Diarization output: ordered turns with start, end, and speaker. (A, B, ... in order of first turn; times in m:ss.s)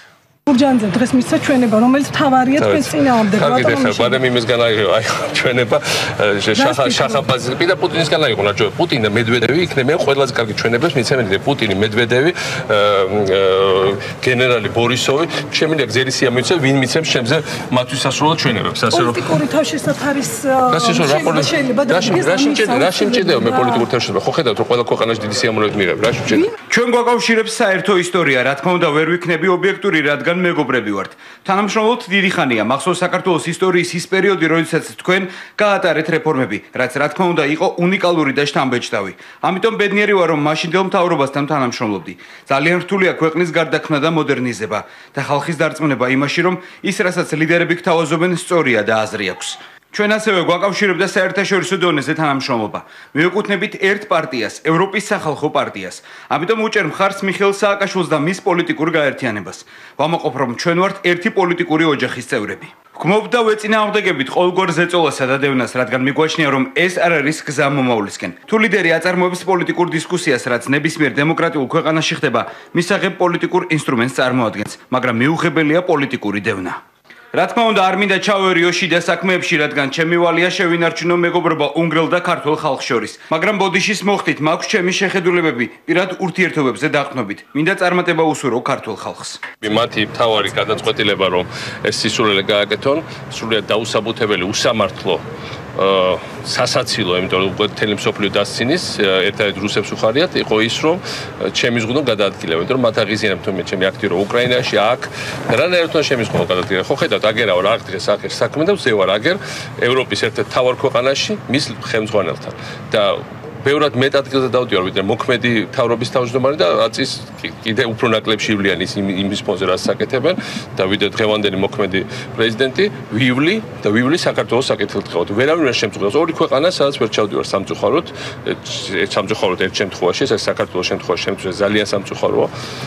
0:00.5-0:04.2 A
0:02.6-0:19.4 B
0:06.6-0:07.2 A
0:18.9-0:23.9 A
0:20.7-0:26.5 B
0:26.7-1:16.8 C
1:17.3-1:29.4 C
1:29.6-1:35.2 B
1:35.8-2:12.5 B